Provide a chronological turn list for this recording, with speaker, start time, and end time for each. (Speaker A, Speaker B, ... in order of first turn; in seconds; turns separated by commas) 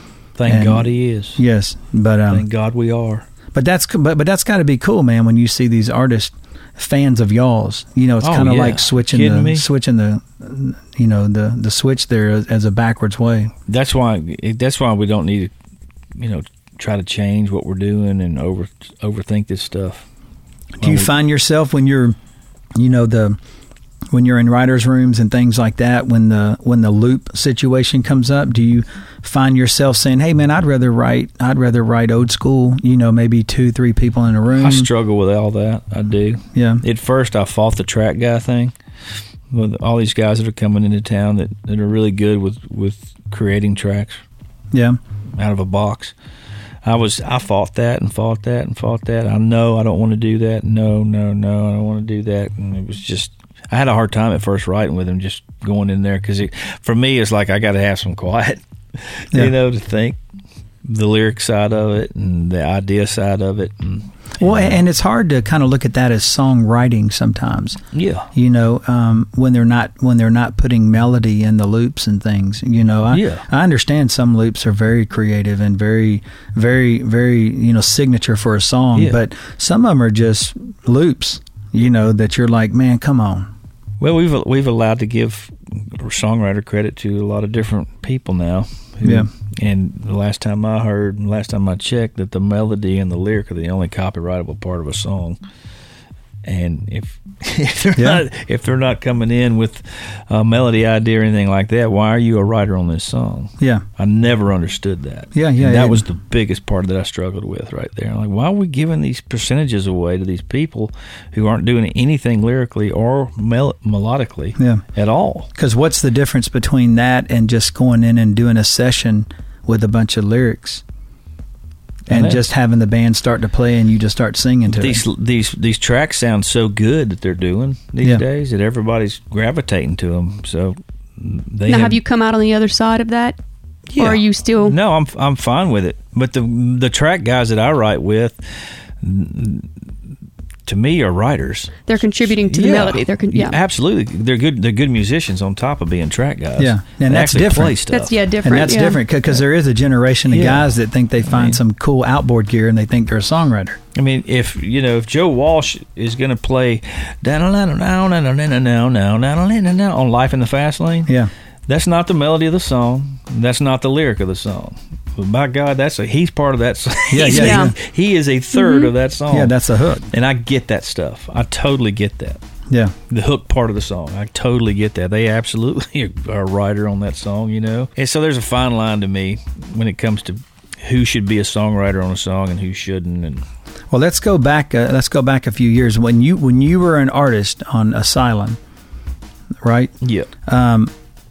Speaker A: 0.4-1.4, Speaker B: 0.5-2.5, Speaker A: 2.3-3.3, Speaker B: 3.5-13.5, Speaker A: 8.2-9.6, Speaker A: 13.7-15.5, Speaker A: 16.2-20.1, Speaker A: 20.8-21.1, Speaker B: 20.8-22.1, Speaker B: 22.8-23.4, Speaker B: 24.1-34.9, Speaker A: 34.6-38.7, Speaker B: 36.5-36.8, Speaker A: 39.5-44.2, Speaker B: 44.7-45.0, Speaker A: 45.4-46.1, Speaker A: 46.8-60.2, Speaker A: 60.8-64.8, Speaker B: 64.4-67.8, Speaker A: 67.9-68.3, Speaker B: 68.3-83.5, Speaker A: 73.1-73.4, Speaker A: 84.0-95.4, Speaker B: 89.0-89.3, Speaker A: 96.4-115.5, Speaker B: 98.0-98.2, Speaker B: 103.6-103.8, Speaker B: 105.3-106.0, Speaker B: 114.6-114.8, Speaker B: 115.5-120.8, Speaker A: 122.1-122.4, Speaker B: 122.1-125.0, Speaker A: 124.7-132.0, Speaker C: 131.7-133.4, Speaker A: 133.9-138.4, Speaker C: 134.0-134.8, Speaker A: 139.0-139.7, Speaker A: 140.7-148.2, Speaker C: 141.9-143.6, Speaker B: 146.6-147.8, Speaker C: 147.9-149.0, Speaker B: 148.4-153.8, Speaker A: 150.3-150.7, Speaker A: 151.2-151.6, Speaker A: 153.9-161.1, Speaker A: 161.7-169.6, Speaker B: 167.1-167.7, Speaker C: 167.2-167.7, Speaker C: 168.5-168.9, Speaker B: 169.3-170.1, Speaker A: 170.1-172.4, Speaker B: 172.7-172.9, Speaker A: 173.1-183.4, Speaker B: 183.9-188.6, Speaker B: 189.6-189.9, Speaker A: 190.0-190.3, Speaker B: 190.5-190.9